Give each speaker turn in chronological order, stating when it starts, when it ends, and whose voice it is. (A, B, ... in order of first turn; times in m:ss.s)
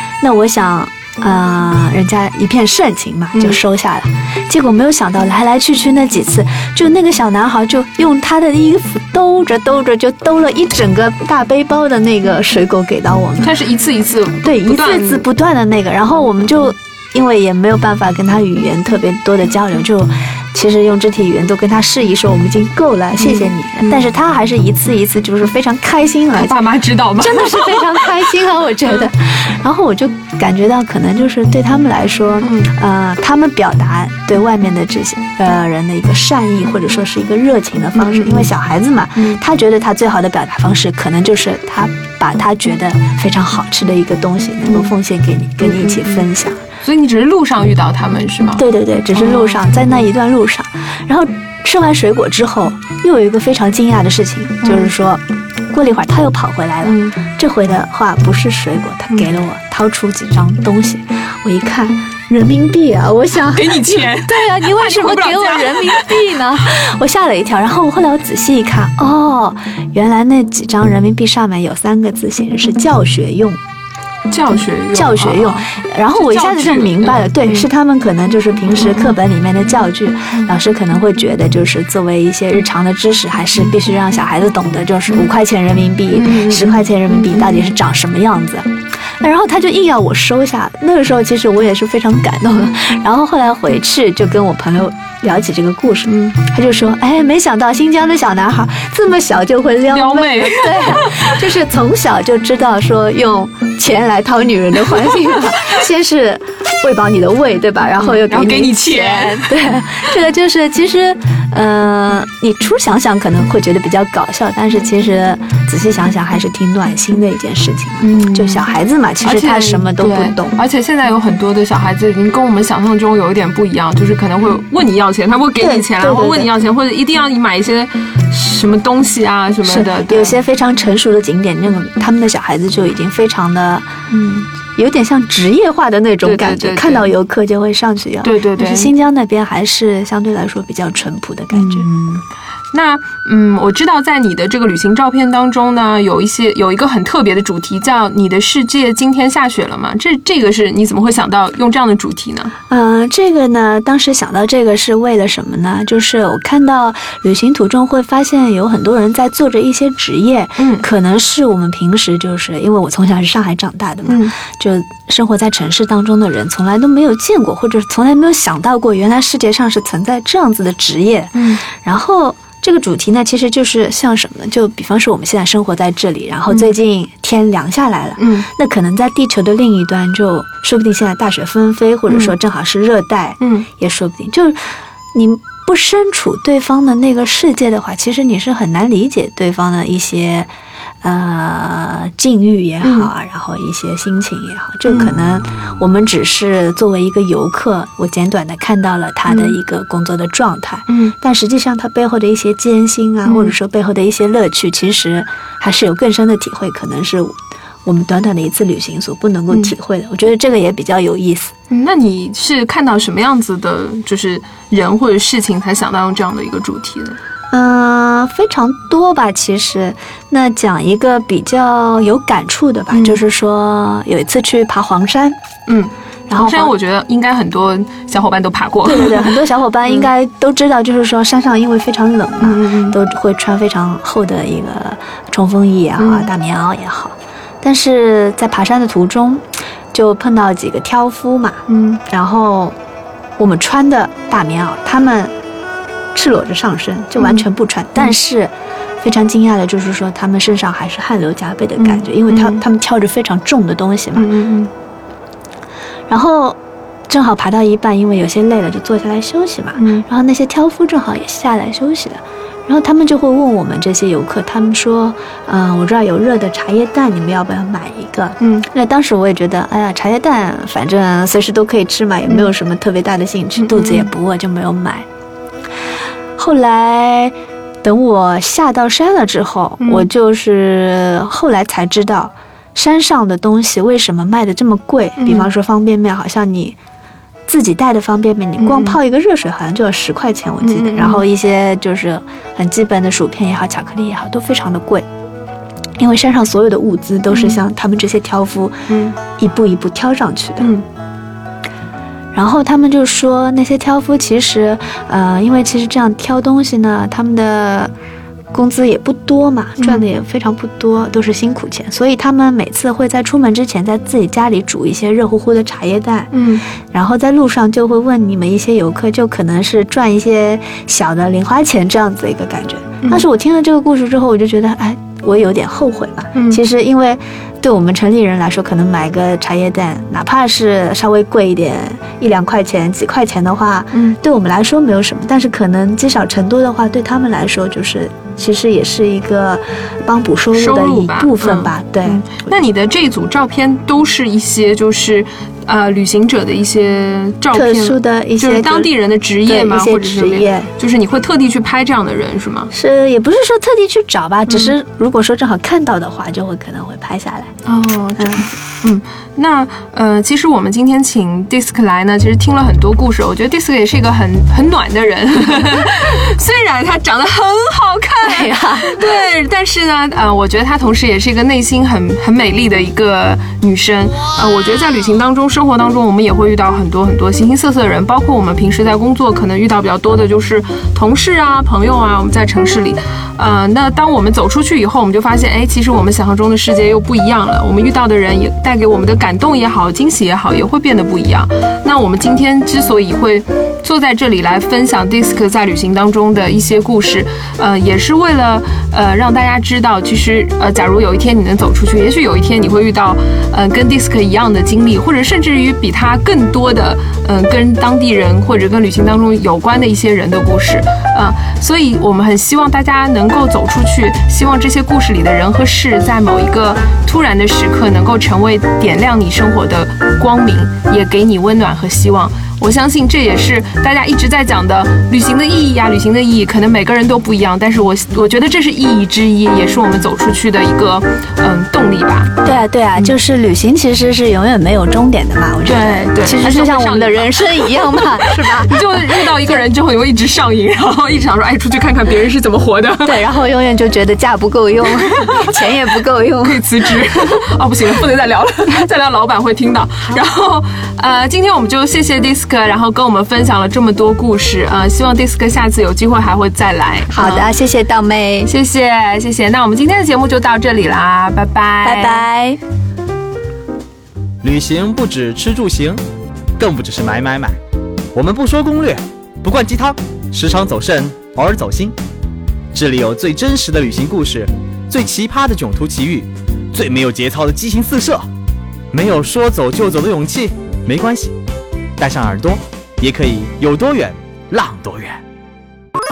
0:00.2-0:13.6 A
0:13.4-0:15.3 B
0:14.4-0:26.6 A
0:23.2-0:24.0 B
0:26.4-0:28.2 B
0:27.2-0:46.6 A
0:32.4-0:32.7 B
0:38.0-0:38.5 B
0:39.2-0:39.4 B
0:44.7-0:44.9 B
0:45.6-0:46.3 B
0:46.8-0:50.1 B
0:48.5-1:13.6 A
0:54.6-0:54.9 B
0:56.8-0:57.2 B
1:03.5-1:06.2 B
1:14.3-1:17.7 B
1:14.9-1:28.7 A
1:26.1-1:27.7 B
1:29.2-2:00.6 A
1:36.1-1:36.4 B
1:39.9-1:41.4 B
1:48.0-1:49.6 B
1:58.0-1:58.7 B
1:59.2-2:10.4 B
2:05.6-2:06.5 A
2:09.6-2:22.2 A
2:16.2-2:17.1 B
2:18.2-2:18.9 B
2:21.5-2:22.2 B
2:22.7-2:32.5 B
2:32.7-3:04.6 A
2:40.6-2:40.9 B
2:44.1-2:44.3 B
2:51.3-2:51.6 B
2:56.5-2:56.7 B
2:58.2-2:58.5 B
3:02.1-3:02.4 B
3:03.4-3:03.7 B
3:05.1-3:10.5 A
3:11.0-3:27.4 A
3:12.8-3:13.1 B
3:14.9-3:15.1 B
3:19.3-3:19.6 B
3:23.2-3:23.6 B
3:27.9-3:31.5 A
3:31.7-3:37.2 B
3:37.5-3:45.4 A
3:42.9-3:43.2 B
3:45.7-3:49.4 B
3:46.3-3:46.8 A
3:48.8-4:02.8 A
3:52.4-3:53.0 B
3:56.0-3:56.3 B
4:01.7-4:02.0 B
4:03.4-4:05.3 A
4:06.1-4:14.3 A
4:07.2-4:07.5 B
4:11.8-4:12.6 B
4:14.2-4:14.7 B
4:16.1-4:16.6 A
4:17.1-4:35.1 A
4:19.8-4:20.1 B
4:28.4-4:28.7 B
4:33.6-4:34.1 B
4:36.4-4:46.8 A
4:39.8-4:40.1 B
4:45.2-4:45.5 B
4:47.5-4:55.1 A
4:48.6-4:49.0 B
4:50.6-4:51.3 B
4:56.0-5:00.8 A
4:57.3-4:57.6 B
4:58.9-4:59.2 B
5:00.6-5:00.9 B
5:02.3-5:07.9 A
5:08.5-5:16.3 A
5:09.8-5:10.1 B
5:16.3-5:16.6 B
5:16.9-5:42.5 A
5:26.4-5:26.6 B
5:40.5-5:52.7 B
5:47.5-5:50.7 A
5:52.7-5:57.5 A
5:54.5-5:54.8 B
5:57.7-7:13.2 B
5:58.2-5:58.5 A
6:08.2-6:09.0 A
7:12.4-7:19.6 A
7:15.6-7:23.2 B
7:23.0-7:26.6 A
7:25.1-7:25.4 B
7:26.4-7:37.5 B
7:37.1-7:38.5 A
7:38.4-7:42.3 B
7:41.8-7:42.6 A
7:44.4-7:46.0 C
7:46.6-7:47.6 C
7:48.1-7:52.0 C
7:52.7-7:58.3 C
7:58.9-8:01.3 C
8:02.0-8:05.2 C